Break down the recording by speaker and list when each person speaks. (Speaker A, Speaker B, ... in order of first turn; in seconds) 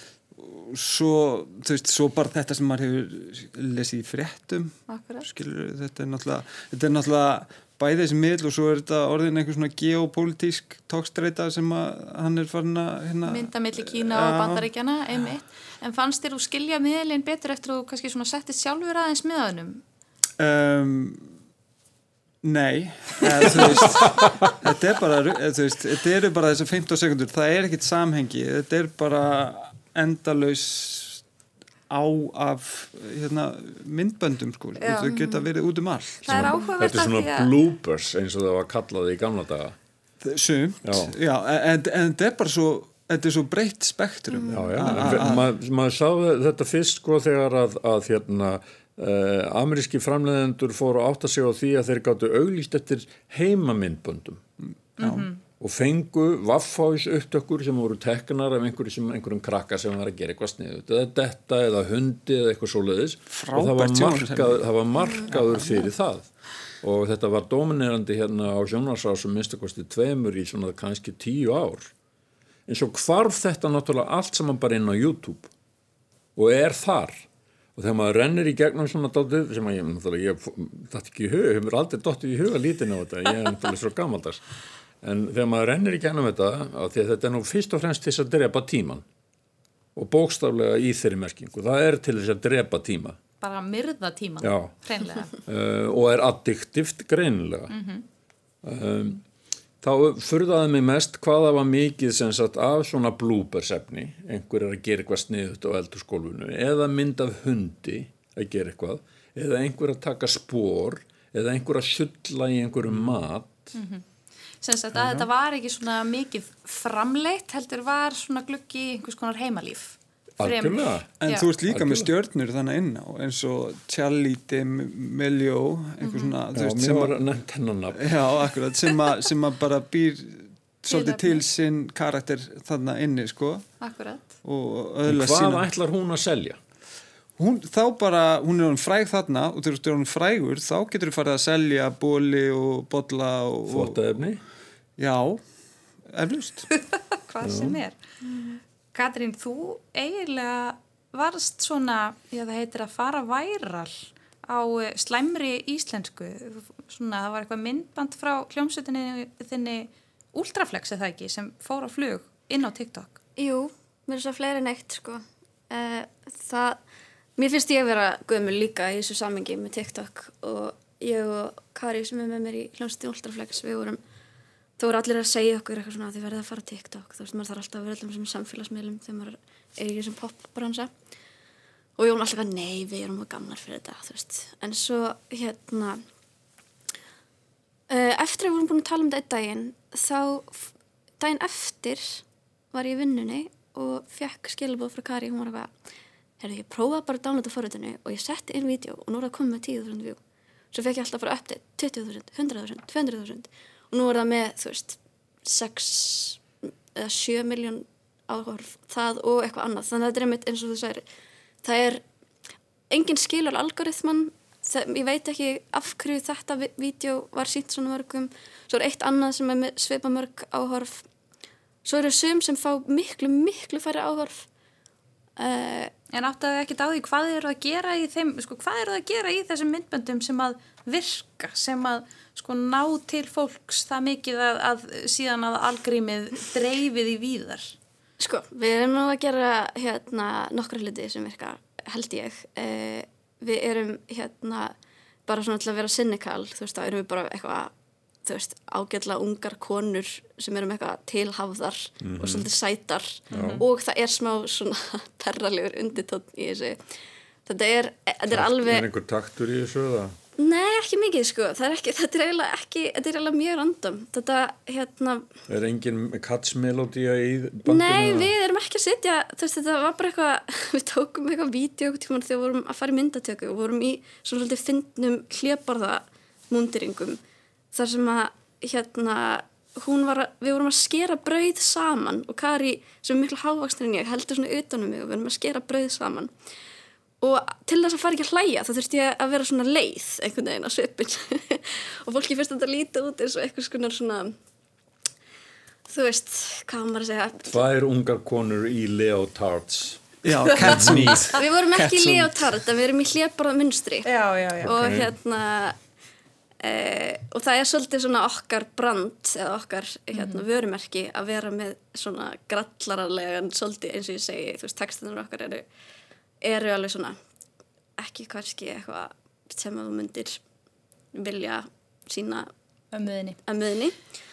Speaker A: 0.3-14.7, 20.4-21.3, 22.4-31.2, 31.9-36.5, 40.2-45.5, 55.0-55.3, 63.3-64.6, 65.3-65.8, 115.0-115.2, 121.2-127.2, 128.0-133.7, 134.4-135.6, 137.4-144.1, 145.0-145.4, 146.1-146.7, 300.2-302.4
Speaker B: 4.9-5.2, 13.3-19.8, 34.8-35.4, 36.2-37.5, 55.0-55.4, 93.4-95.3, 97.7-98.0, 113.7-114.0, 114.6-121.5, 126.0-126.3, 130.9-131.4, 133.8-134.3, 146.8-163.2, 226.1-237.8, 253.3-253.6, 300.4-301.0, 304.0-304.7, 310.1-310.4, 322.9-323.4
Speaker C: 36.3-39.8, 40.8-41.1, 44.5-54.4, 55.6-66.3, 66.8-71.9, 72.7-75.5, 76.3-84.4, 85.0-89.0, 89.9-93.2, 94.4-94.7, 95.4-97.7, 98.6-99.2, 99.8-113.7, 120.4-121.1, 121.6-122.1, 126.5-128.5, 135.1-136.6, 143.7-144.4, 147.4-147.8, 252.0-252.5, 253.3-253.6, 258.3-260.1, 265.5-268.3, 297.5-301.3, 304.6-305.1
Speaker D: 44.3-45.1, 65.0-65.3, 163.4-166.8, 167.4-174.0, 174.8-180.9, 182.0-186.0, 187.9-195.7, 196.4-200.2, 200.7-211.0, 211.6-212.0, 212.9-221.1, 221.8-224.5, 225.4-225.9, 238.2-244.7, 245.3-247.7, 248.2-256.8, 257.4-258.9, 260.4-265.3, 267.6-277.2, 277.7-286.3, 287.2-294.4, 295.9-297.6, 301.4-304.1, 304.6-305.8, 306.6-315.6, 316.4-317.2, 318.0-320.4, 321.1-322.5, 323.4-323.9